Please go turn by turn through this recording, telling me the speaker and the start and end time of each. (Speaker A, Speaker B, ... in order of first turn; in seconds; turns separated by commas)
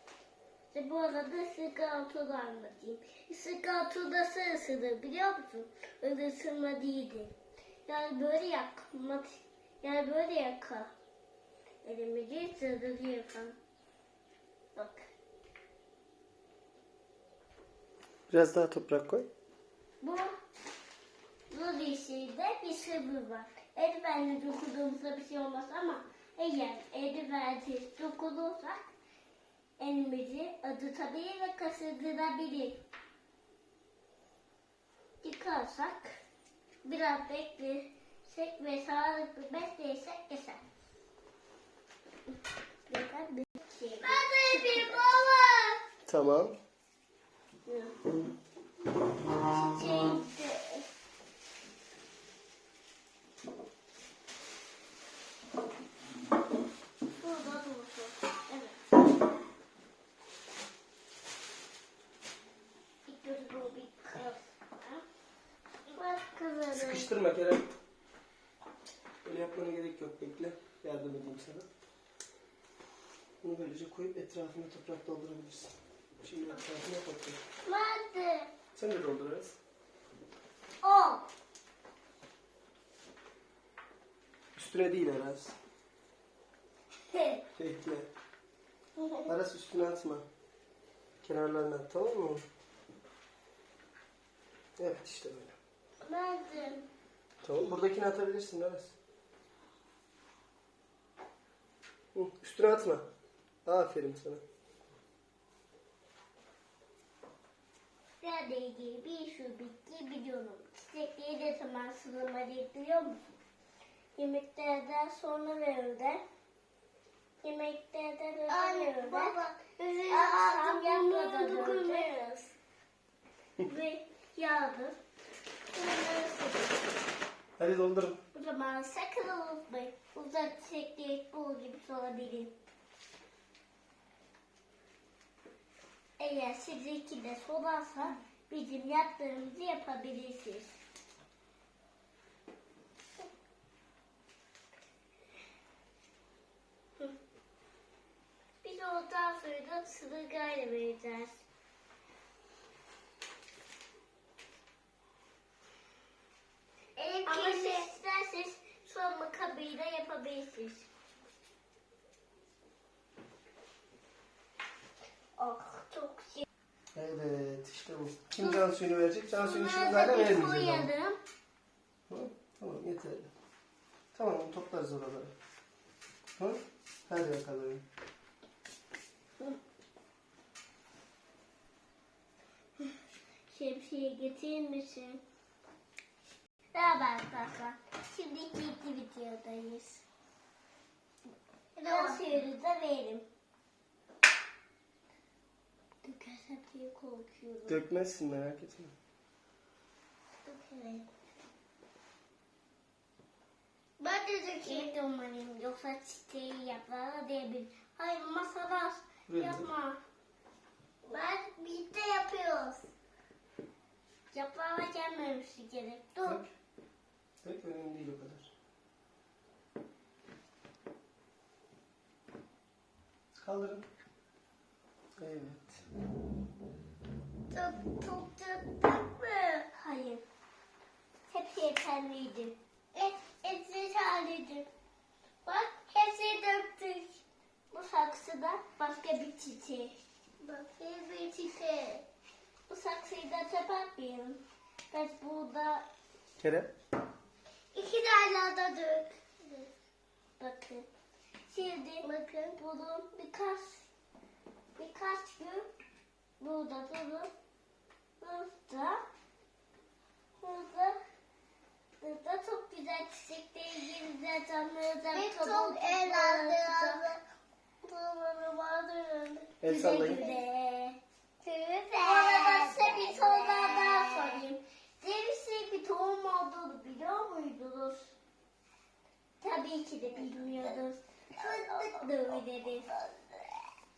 Speaker A: 0.7-7.3, Speaker A: 7.9-10.9, Speaker A: 11.8-13.6, Speaker A: 14.8-15.1, Speaker B: 18.3-19.3, Speaker A: 20.0-20.3, Speaker A: 21.5-28.9, Speaker A: 29.8-32.8, Speaker A: 35.2-36.2, Speaker A: 36.8-40.6, Speaker A: 42.9-45.0, Speaker C: 44.0-45.8, Speaker B: 46.1-46.6, Speaker A: 47.7-47.9, Speaker A: 49.4-50.9, Speaker A: 57.2-58.9, Speaker A: 63.1-65.0, Speaker A: 65.9-67.1, Speaker B: 66.7-67.7, Speaker B: 69.2-71.7, Speaker B: 73.4-77.4, Speaker A: 77.7-78.5, Speaker B: 78.8-79.6, Speaker A: 80.8-81.2, Speaker B: 84.5-85.6, Speaker A: 87.1-87.4, Speaker B: 87.6-88.1, Speaker B: 89.2-90.2, Speaker B: 91.2-92.4, Speaker B: 94.8-95.6, Speaker A: 96.0-96.8, Speaker B: 97.4-98.9, Speaker B: 102.1-103.0, Speaker B: 103.7-104.4, Speaker A: 108.2-113.2, Speaker A: 114.2-116.2, Speaker A: 117.4-119.4, Speaker C: 118.5-122.5, Speaker A: 120.1-122.1, Speaker A: 123.6-125.0, Speaker A: 125.7-126.8, Speaker B: 127.6-128.2, Speaker A: 128.3-132.5, Speaker A: 136.2-140.8, Speaker A: 148.6-151.4, Speaker C: 157.0-157.9, Speaker A: 157.2-160.9, Speaker A: 165.4-166.4, Speaker B: 166.9-170.9, Speaker A: 169.3-171.2, Speaker B: 172.1-173.3, Speaker B: 174.1-175.3, Speaker B: 176.4-177.8, Speaker A: 183.5-185.2, Speaker A: 186.7-190.0, Speaker C: 191.8-192.3, Speaker A: 191.8-193.2, Speaker A: 196.0-197.8, Speaker B: 197.7-198.9, Speaker C: 200.5-201.0, Speaker C: 204.0-204.9, Speaker A: 204.6-210.0, Speaker B: 209.3-209.7, Speaker C: 211.1-212.9, Speaker A: 214.3-216.4, Speaker B: 216.2-216.5, Speaker B: 217.4-218.5, Speaker B: 223.4-223.9, Speaker B: 225.2-225.8, Speaker C: 227.5-229.7, Speaker A: 229.7-230.2, Speaker A: 231.3-232.6, Speaker C: 232.9-234.7, Speaker C: 235.4-237.2, Speaker A: 237.7-239.9, Speaker C: 240.4-242.1, Speaker A: 242.7-245.8, Speaker B: 246.4-246.7, Speaker C: 247.7-249.7, Speaker A: 250.4-250.9, Speaker A: 251.5-253.9, Speaker C: 252.0-252.6, Speaker A: 254.8-255.7, Speaker A: 256.4-257.3, Speaker A: 258.2-259.0, Speaker A: 260.4-261.0, Speaker A: 262.0-267.0, Speaker C: 265.1-267.2, Speaker C: 267.8-269.5, Speaker B: 269.6-270.2, Speaker A: 269.6-271.0, Speaker C: 270.0-270.4, Speaker C: 271.4-274.4, Speaker A: 272.0-278.1, Speaker A: 279.4-282.9, Speaker C: 280.4-280.8, Speaker C: 281.4-282.0, Speaker C: 282.9-283.6